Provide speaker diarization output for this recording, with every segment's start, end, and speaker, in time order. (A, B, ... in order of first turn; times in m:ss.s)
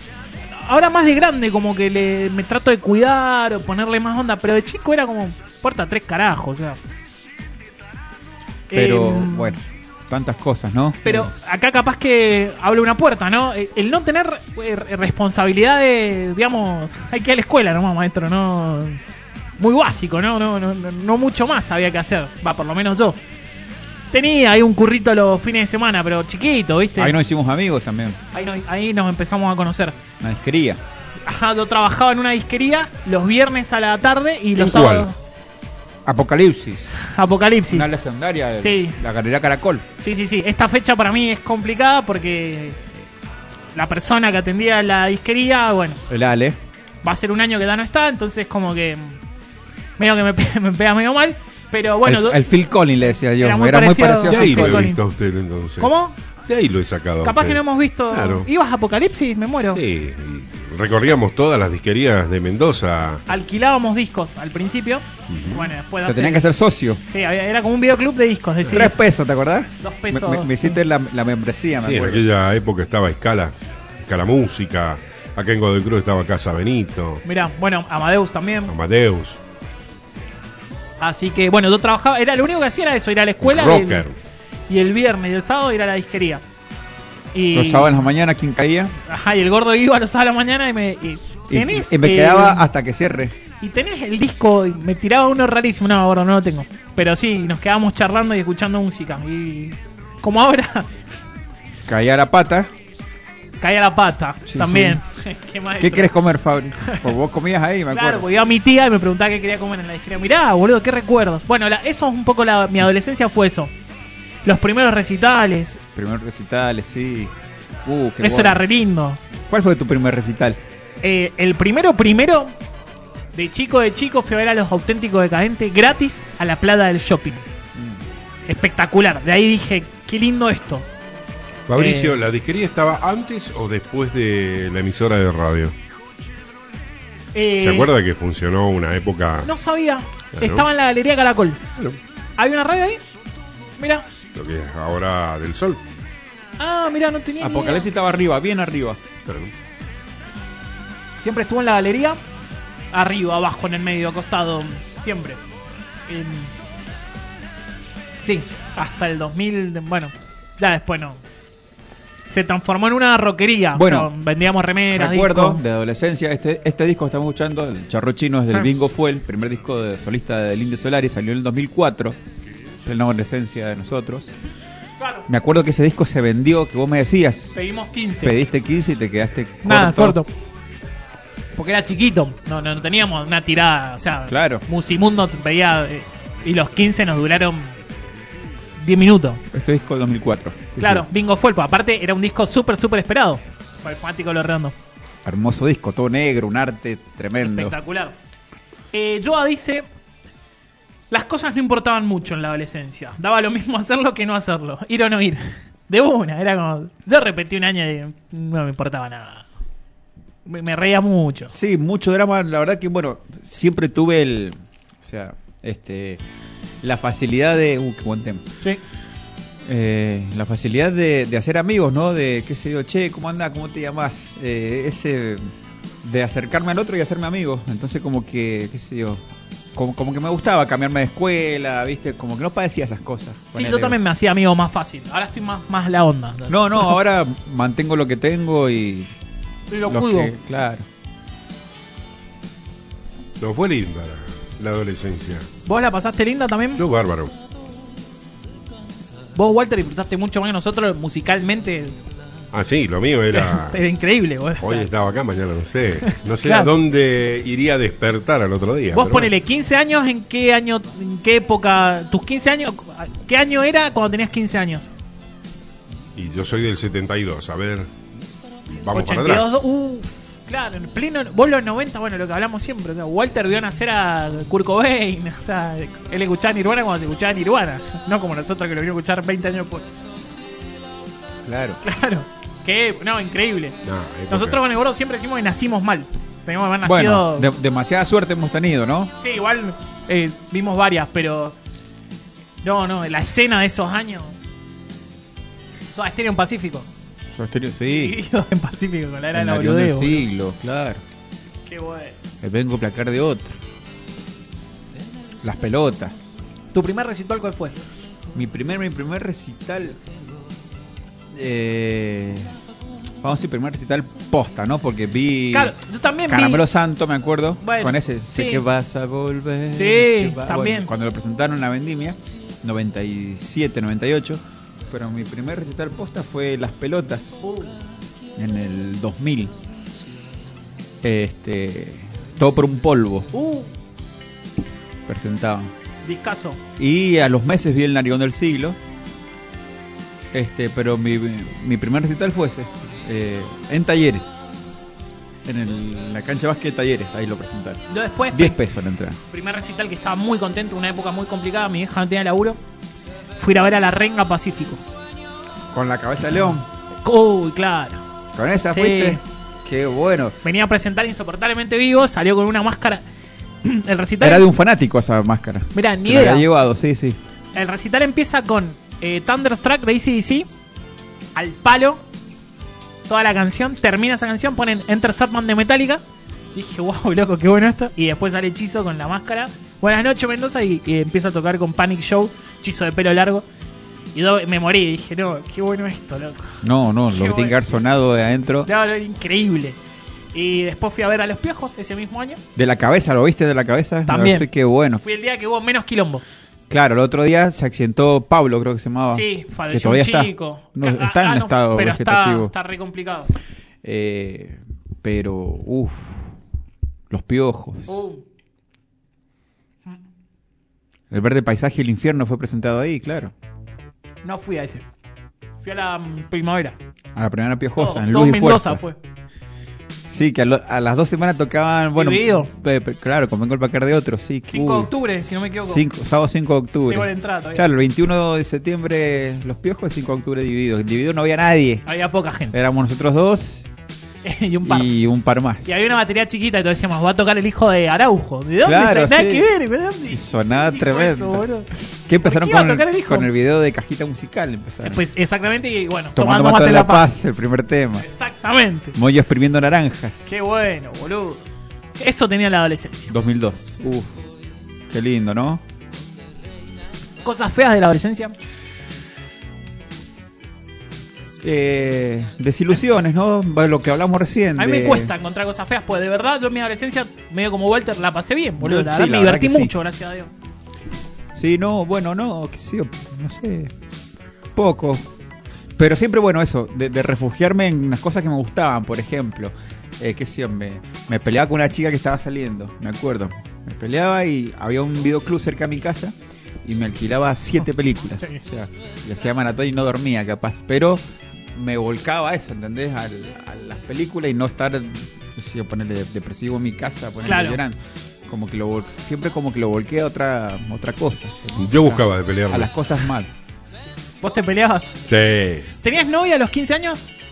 0:00.6-0:06.8 A
0:08.7-0:09.6 A
0:08.7-0:11.3 B
0:11.0-0:19.0 A
0:19.6-0:23.2 A
0:24.1-0:27.2 A
0:27.0-0:28.2 B
0:28.3-0:30.0 A
0:30.2-0:30.8 B
0:31.3-0:35.2 A
0:34.6-0:35.1 C
0:36.0-0:36.9 B
0:37.0-0:37.9 A
0:37.7-0:39.9 B
0:38.6-0:39.0 A
0:40.0-0:42.8 A
0:43.8-0:46.0 A
0:46.1-0:46.6 B
0:47.0-0:49.2 A
0:50.0-0:52.4 A
0:52.0-0:54.9 B
0:53.4-0:55.0 A
0:54.3-0:55.9 C
0:55.8-0:56.2 A
0:56.5-0:58.5 C
0:57.2-0:59.8 A
0:59.6-1:03.2 C
1:03.3-1:06.5 A
1:05.3-1:05.7 C
1:06.0-1:07.0 B
1:07.1-1:09.0 A
1:08.7-1:12.3 B
1:09.8-1:10.8 A
1:11.8-1:17.2 C
1:17.2-1:18.7 A
1:18.7-1:19.4 C
1:21.0-1:24.0 A
1:23.4-1:24.2 C
1:24.7-1:26.4 A
1:27.3-1:28.0 A
1:27.5-1:28.9 B
1:29.1-1:32.7 A
1:31.5-1:33.4 B
1:33.6-1:40.9 A
1:41.9-1:42.7 B
1:43.6-1:46.1 A
1:44.5-1:45.0 B
1:45.8-1:48.3 B
1:46.8-1:47.1 A
1:47.9-1:53.7 A
1:54.4-1:55.8 A
1:55.9-1:57.3 B
1:57.8-1:58.6 B
1:58.2-1:59.2 A
1:59.5-2:00.6 B
2:01.0-2:02.5 A
2:03.4-2:07.4 A
2:07.8-2:08.0 B
2:08.5-2:10.9 A
2:11.7-2:15.7 C
2:11.8-2:12.2 A
2:17.4-2:17.9 A
2:17.6-2:19.5 C
2:19.4-2:21.6 A
2:20.4-2:20.7 C
2:22.4-2:23.0 A
2:23.8-2:24.0 A
2:24.3-2:25.8 C
2:26.6-2:27.9 A
2:27.4-2:29.0 B
2:31.2-2:32.2 A
2:32.9-2:35.4 A
2:36.1-2:36.5 A
2:38.2-2:41.2 A
2:42.3-2:45.6 A
2:43.7-2:44.1 B
2:44.9-2:52.2 B
2:52.8-2:54.3 B
2:55.0-2:55.3 A
2:55.3-2:57.6 B
2:57.6-2:58.4 A
2:58.2-3:00.2 B
2:59.6-3:00.3 A
3:01.6-3:07.7 A
3:04.3-3:04.6 B
3:08.8-3:09.4 A
3:09.5-3:11.1 B
3:10.8-3:14.7 A
3:15.2-3:17.8 B
3:17.4-3:18.2 A
3:18.9-3:19.9 A
3:21.1-3:29.5 A
3:30.4-3:31.5 A
3:31.5-3:36.2 B
3:36.8-3:38.5 B
3:39.7-3:45.5 B
3:46.0-3:49.2 B
3:49.8-3:54.0 B
3:53.5-3:57.0 A
3:56.5-3:59.1 B
3:59.7-4:00.3 A
3:59.9-4:00.9 B
4:03.4-4:05.5 C
4:05.7-4:06.8 A
4:06.8-4:07.3 C
4:09.4-4:12.0 A
4:12.5-4:13.8 C
4:13.3-4:14.9 A
4:14.6-4:19.3 C
4:16.1-4:16.7 A
4:18.9-4:24.9 A
4:26.2-4:27.9 C
4:28.7-4:29.6 C
4:28.9-4:40.0 A
4:41.4-4:41.8 B
4:41.8-4:43.8 A
4:43.9-4:44.6 C
4:44.3-4:47.5 A
4:46.8-4:49.1 B
4:49.2-4:51.6 A
4:52.6-4:54.4 A
4:55.9-4:56.9 A
4:57.3-4:58.2 B
4:57.9-5:00.3 A
4:59.3-5:01.0 B
5:01.7-5:02.2 A
5:02.4-5:03.6 B
5:05.4-5:06.4 B
5:06.7-5:07.8 A
5:08.3-5:10.0 B
5:11.3-5:12.6 B
5:13.2-5:15.8 B
5:15.5-5:16.6 A
5:16.3-5:27.4 B
5:17.6-5:18.6 A
5:19.7-5:20.9 A
5:27.4-5:27.8 A
5:28.4-5:29.5 B
5:31.0-5:33.3 B
5:33.3-5:33.7 A
5:35.1-5:35.7 B
5:36.0-5:36.6 A
5:36.8-5:38.8 B
5:40.3-5:44.3 B
5:45.4-5:49.2 B
5:47.9-5:48.6 A
5:49.3-5:52.6 A
5:53.4-5:54.8 A
5:55.7-5:56.7 B
5:57.0-5:58.0 A
5:58.3-6:00.4 B
5:58.7-5:59.2 A
6:00.4-6:03.0 A
6:03.6-6:04.5 A
6:04.2-6:07.2 B
6:05.7-6:06.5 A
6:07.6-6:10.5 A
6:11.4-6:12.0 A
6:13.1-6:16.0 A
6:16.5-6:23.5 A
6:24.1-6:26.6 A
6:26.6-6:28.7 B
6:27.1-6:27.6 A
6:28.7-6:29.8 A
6:30.3-6:32.4 A
6:32.6-6:35.0 B
6:34.1-6:34.5 A
6:35.0-6:36.2 A
6:36.7-6:42.5 B
6:39.1-6:43.3 A
6:43.8-6:46.3 B
6:47.1-6:48.0 B
6:47.9-6:48.2 A
6:51.1-6:53.3 B
6:54.2-6:54.8 A
6:55.6-6:56.8 A
6:57.2-6:58.8 B
6:57.8-6:59.0 A
7:00.1-7:11.8 B
7:02.0-7:02.5 A
7:04.5-7:05.8 A
7:06.9-7:07.7 A
7:11.9-7:12.6 A
7:12.5-7:13.7 B
7:14.2-7:14.9 A
7:14.6-7:15.7 B
7:15.6-7:21.7 A
7:18.6-7:19.5 B
7:20.1-7:21.4 B
7:22.1-7:25.0 B
7:22.2-7:23.3 A
7:24.8-7:27.1 A
7:26.2-7:28.1 B
7:28.0-7:29.0 A
7:29.0-7:30.3 B
7:30.3-7:31.4 A
7:32.0-7:33.1 A
7:33.1-7:34.2 B
7:34.9-7:35.6 B
7:37.2-7:38.4 A
7:41.4-7:45.1 B
7:44.6-7:50.3 A
7:48.6-7:49.7 B
7:51.3-7:53.7 B
7:54.6-7:55.1 B
7:55.8-8:11.0 B
8:11.5-8:23.3 B
8:17.2-8:17.6 A
8:21.6-8:22.7 C
8:24.2-8:25.0 A
8:25.1-8:25.7 C
8:25.8-8:27.0 A